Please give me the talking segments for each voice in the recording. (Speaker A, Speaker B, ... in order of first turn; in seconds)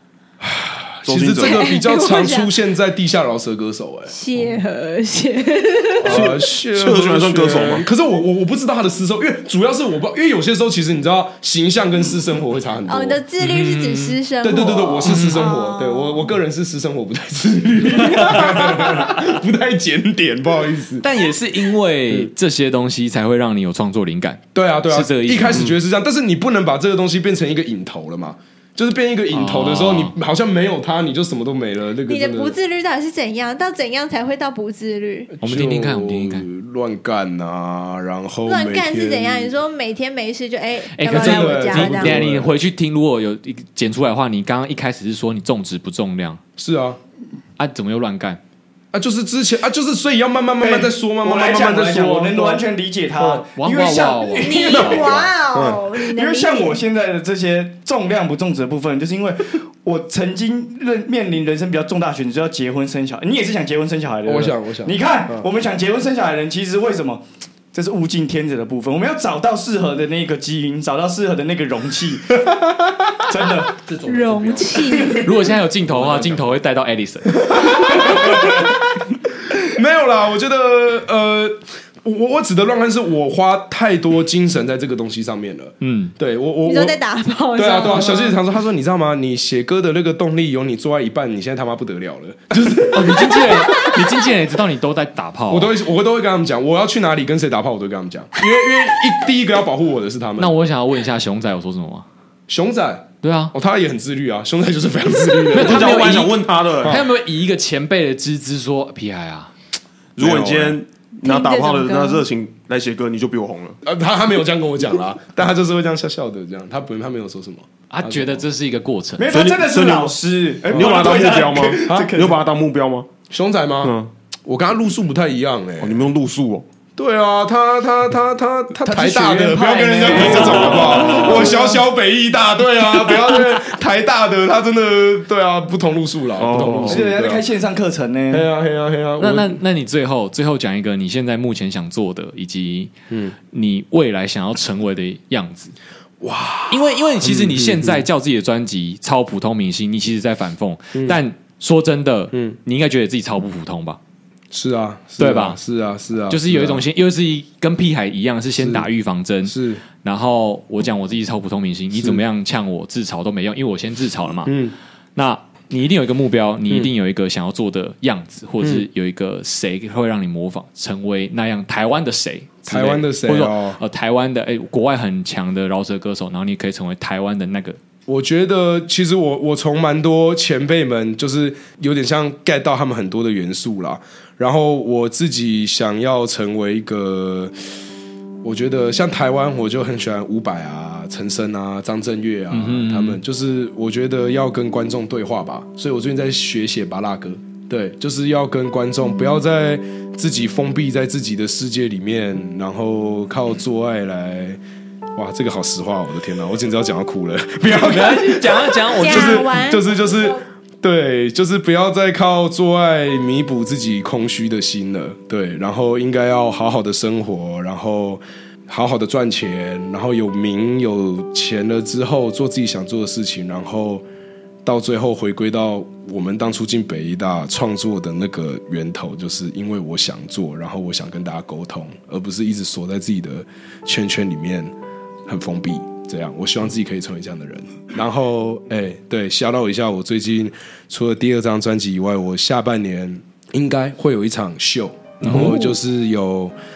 Speaker A: 0.4-4.2, 6.0-13.2, 14.4-21.1, 24.5-32.6, 35.3-39.5, 41.1-42.5, 46.6-47.0, 48.9-52.6, 53.2-53.4, 55.5-55.9, 64.3-65.5, 72.3-73.2, 73.8-75.2, 75.9-76.4, 77.4-78.8, 79.5-87.0, 87.5-93.9, 95.5-100.5, 102.5-106.0, 110.2-110.8, 113.8-118.4, 120.7-121.2, 121.8-122.1, 123.3-123.9, 124.5-126.0, 127.0-137.4, 138.3-139.6, 146.2-148.1, 150.9-151.2, 152.3-152.6, 154.5-156.9, 158.6-158.9, 159.5-159.8, 161.9-162.2, 164.5-164.8, 168.6-168.9, 172.7-173.8, 178.1-187.6, 188.4-204.6, 205.2-224.1, 224.7-234.7, 235.3-246.6
Speaker B: 1.1-1.8, 6.0-7.9, 105.5-107.0, 110.2-113.8, 119.3-120.2, 120.7-123.1, 123.8-124.1, 125.8-126.7, 136.4-137.0
Speaker C: 1.4-2.5, 4.1-6.3, 12.9-16.3, 32.1-35.3, 38.5-42.2, 54.4-56.8, 74.0-75.4, 86.7-88.4, 111.2-112.2, 209.0-210.4
Speaker D: 13.4-14.2, 15.1-15.5, 18.2-18.8, 21.0-25.7, 29.3-30.1, 35.4-36.5, 41.0-46.4, 47.6-48.4, 53.6-55.3, 75.2-77.6, 85.8-86.1, 92.8-95.7, 100.4-102.1, 103.2-103.5, 105.5-109.5, 117.9-119.3, 139.2-142.9, 143.5-145.8, 146.7-154.0, 155.2-155.6, 156.3-164.6, 165.2-177.8, 192.5-193.2, 207.7-209.5, 245.2-245.8
Speaker E: 50.6-55.2, 56.1-72.4, 73.3-73.8, 119.2-122.4, 128.8-131.7, 136.8-138.5